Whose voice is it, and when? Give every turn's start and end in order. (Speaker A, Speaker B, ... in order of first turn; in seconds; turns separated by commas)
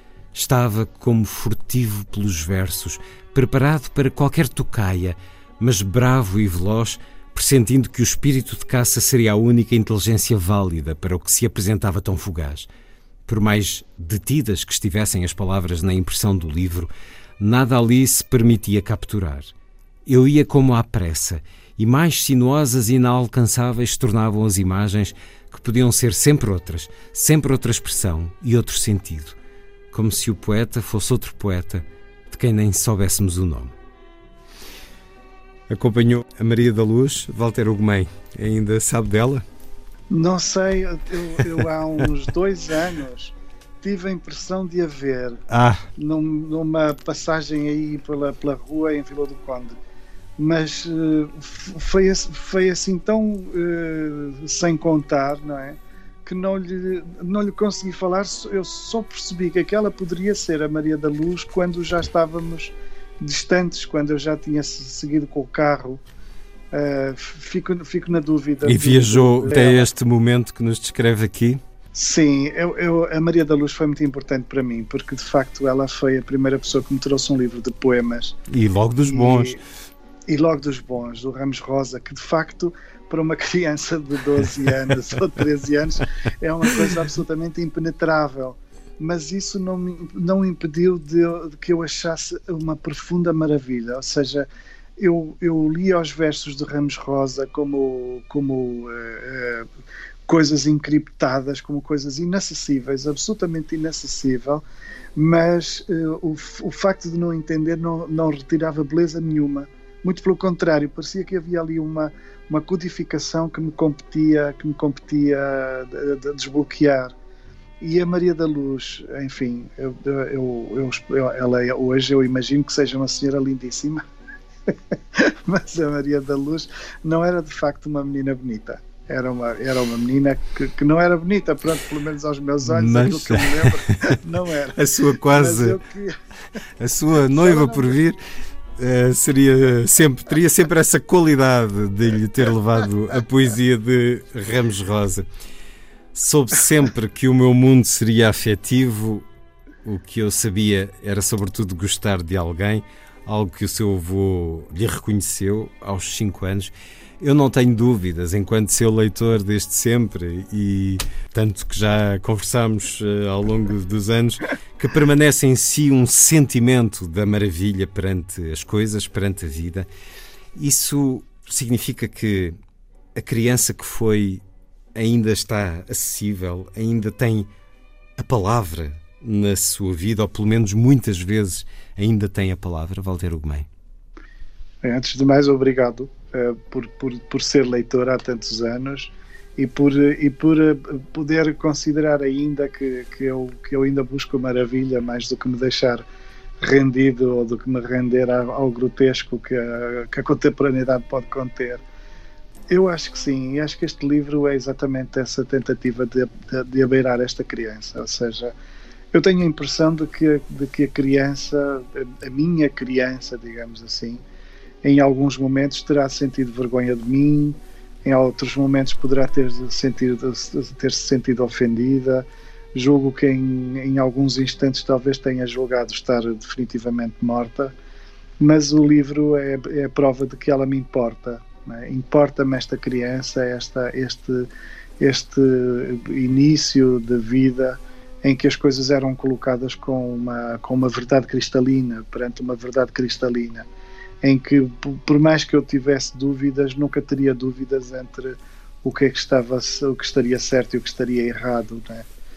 Speaker A: 0.3-12.7, Speaker A: 13.3-19.5, Speaker A: 20.1-29.4, Speaker A: 29.9-33.8, Speaker A: 35.7-39.4, Speaker B: 40.1-45.4, Speaker A: 45.5-45.9, Speaker B: 46.0-49.8, Speaker B: 50.4-66.0, Speaker B: 66.7-69.9, Speaker A: 68.6-71.6, Speaker B: 71.9-78.4, Speaker A: 78.5-79.6, Speaker B: 79.1-79.6, Speaker B: 80.3-94.5, Speaker B: 95.0-99.7, Speaker B: 100.3-104.6, Speaker B: 105.2-117.1, Speaker B: 117.8-124.0, Speaker B: 124.9-136.1, Speaker A: 132.6-133.8, Speaker A: 134.7-135.8, Speaker A: 136.8-138.2, Speaker B: 137.3-138.0, Speaker A: 138.8-145.3, Speaker A: 146.1-149.3, Speaker A: 149.8-169.9, Speaker A: 170.6-172.6, Speaker A: 173.2-174.4, Speaker A: 174.9-177.5, Speaker A: 178.2-183.7, Speaker B: 184.8-196.1, Speaker B: 196.6-201.8, Speaker B: 202.7-208.5, Speaker B: 209.1-214.2, Speaker B: 214.8-227.7, Speaker B: 228.4-234.5, Speaker B: 235.0-243.7, Speaker B: 244.2-252.1